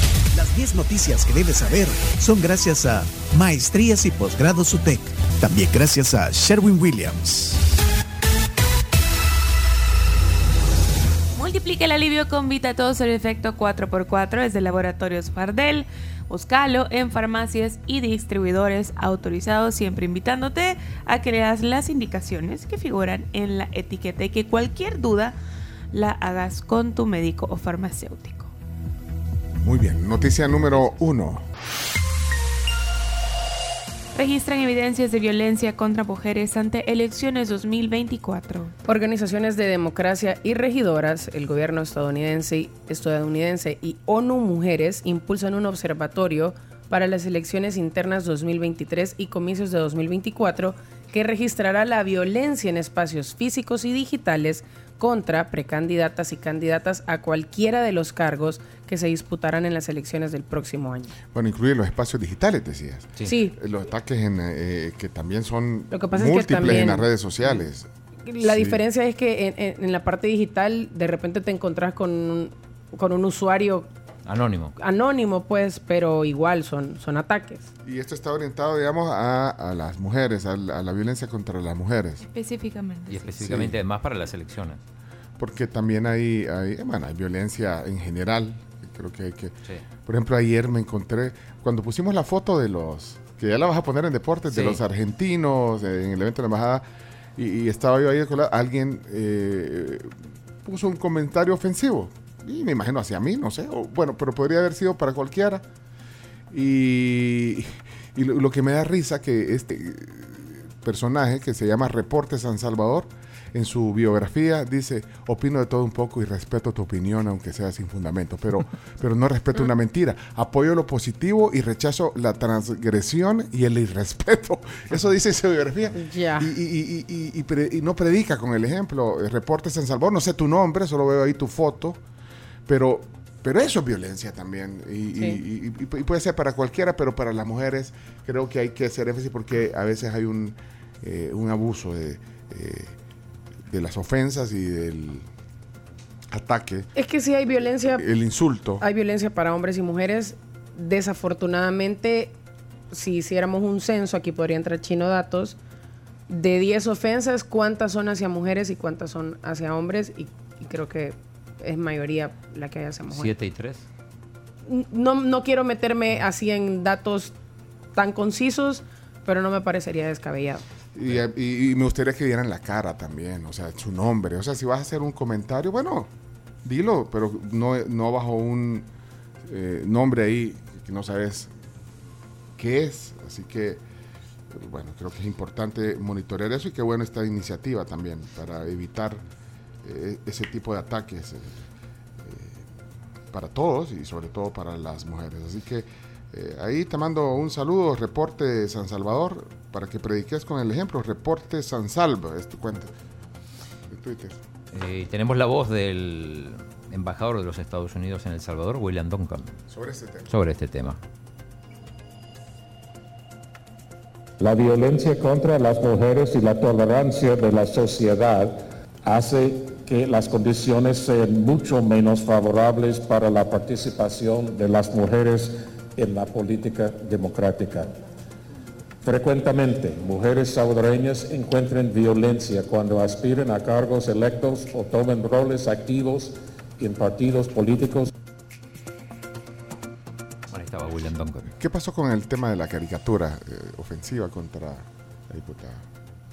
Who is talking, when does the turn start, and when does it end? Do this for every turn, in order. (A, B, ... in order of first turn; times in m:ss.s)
0:00.3-0:07.6 A
0:11.3-0:25.4 B
0:25.9-0:28.5 B
0:29.6-0:31.4 C
0:34.1-0:38.7 B
0:38.8-1:01.1 D
1:01.3-1:07.9 C
1:03.2-1:03.5 D
1:05.9-1:07.1 D
1:08.3-1:13.9 D
1:08.4-1:08.8 C
1:14.2-1:14.7 E
1:14.8-1:17.7 D
1:17.8-1:22.2 C
1:22.2-1:23.3 B
1:23.1-1:24.8 E
1:23.4-1:23.8 C
1:25.4-1:36.8 C
1:34.5-1:34.8 E
1:37.4-1:40.1 C
1:40.6-1:45.6 C
1:46.5-2:12.0 C
2:06.0-2:06.5 D
2:12.6-2:23.0 C
2:23.7-2:25.3 C
2:26.3-2:26.9 C
2:26.9-2:28.0 D
2:27.9-2:28.8 C
2:28.8-2:32.3 D
2:32.9-2:35.6 D
2:36.3-2:43.3 D
2:43.1-2:43.8 E
2:44.6-2:47.3 D
2:48.0-2:50.6 D
2:50.9-2:56.1 C
2:56.6-2:58.9 C
2:59.4-3:01.5 C
3:02.6-3:03.8 C
3:04.5-3:09.2 C
3:09.8-3:11.7 C
3:12.2-3:12.7 C
3:13.3-3:22.9 C
3:23.9-3:24.4 C
3:24.7-3:29.5 E
3:29.7-3:30.3 C
3:30.3-3:31.0 E
3:34.4-3:47.9 F
3:49.0-3:58.1 F
4:00.5-4:01.5 E
4:01.6-4:05.8 C